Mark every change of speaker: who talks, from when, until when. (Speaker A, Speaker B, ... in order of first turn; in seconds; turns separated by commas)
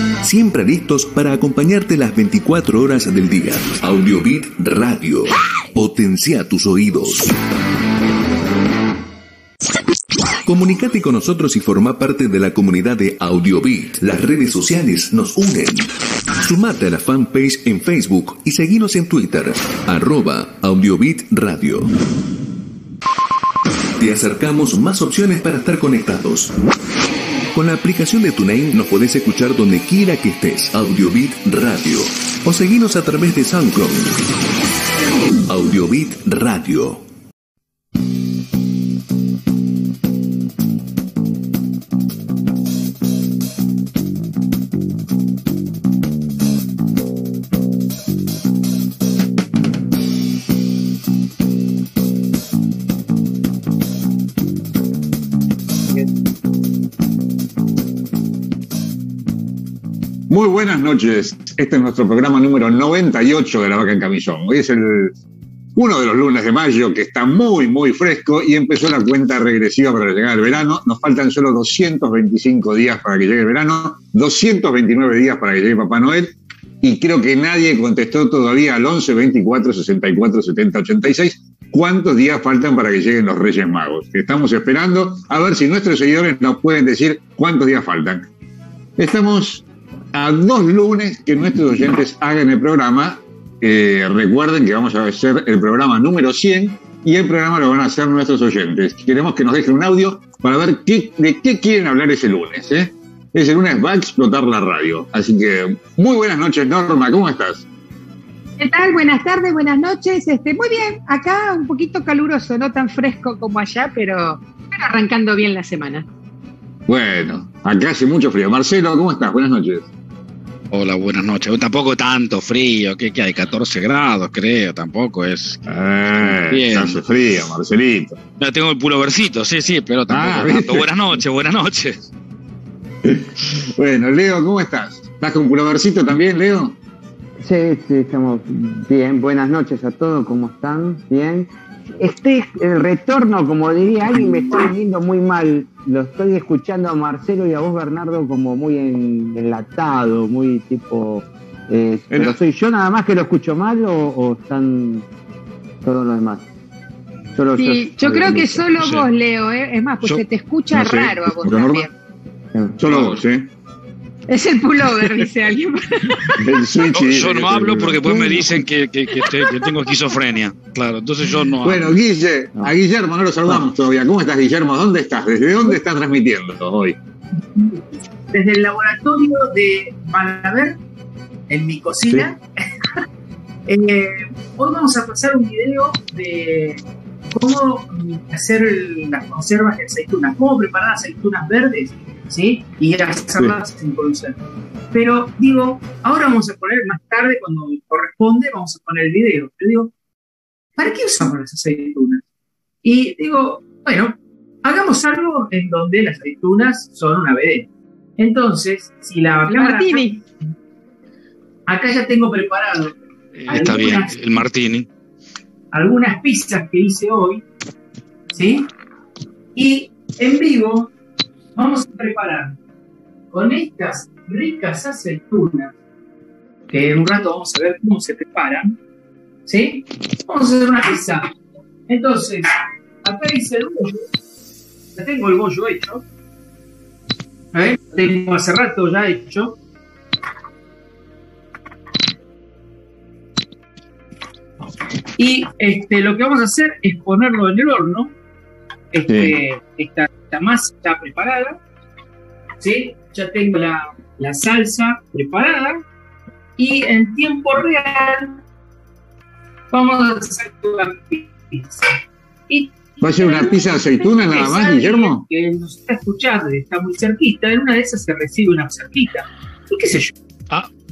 Speaker A: 0.2-7.3, Speaker A: 10.4-21.9, Speaker A: 24.0-26.5, Speaker A: 27.5-34.2, Speaker A: 35.5-37.0, Speaker B: 60.3-65.2, Speaker B: 65.7-88.3, Speaker B: 89.0-107.7, Speaker C: 108.6-116.0, Speaker B: 116.9-119.9, Speaker D: 120.7-125.6, Speaker B: 125.7-128.2, Speaker D: 126.3-127.0, Speaker D: 128.4-132.1, Speaker B: 130.1-130.9, Speaker B: 133.0-136.8, Speaker E: 137.4-155.1, Speaker B: 144.2-144.7, Speaker B: 152.1-152.3, Speaker E: 155.8-156.5, Speaker E: 157.3-158.7, Speaker C: 157.6-161.9, Speaker D: 158.8-159.1, Speaker B: 160.7-161.9, Speaker B: 162.8-163.5, Speaker D: 162.9-163.2, Speaker C: 164.3-166.5, Speaker B: 166.4-168.6, Speaker D: 166.9-171.9, Speaker B: 171.6-177.0, Speaker F: 177.6-180.8, Speaker F: 181.5-182.4, Speaker F: 183.7-194.4, Speaker F: 194.9-199.9, Speaker F: 200.8-202.2, Speaker F: 202.8-207.7, Speaker F: 208.2-210.2, Speaker C: 209.5-210.2, Speaker F: 211.7-212.9, Speaker D: 213.4-214.9, Speaker F: 213.5-214.3, Speaker F: 215.7-217.4, Speaker F: 218.3-218.7, Speaker F: 219.5-220.9, Speaker F: 221.5-222.6, Speaker F: 223.3-225.7, Speaker F: 226.7-228.8, Speaker F: 229.4-231.3, Speaker F: 231.9-232.5, Speaker F: 233.0-234.1, Speaker F: 234.9-236.0, Speaker F: 237.5-239.6, Speaker F: 245.2-248.1, Speaker F: 248.9-251.6, Speaker B: 249.1-249.3, Speaker F: 252.6-255.8, Speaker F: 256.6-258.4, Speaker F: 259.7-261.9, Speaker F: 262.5-270.1, Speaker B: 263.0-265.2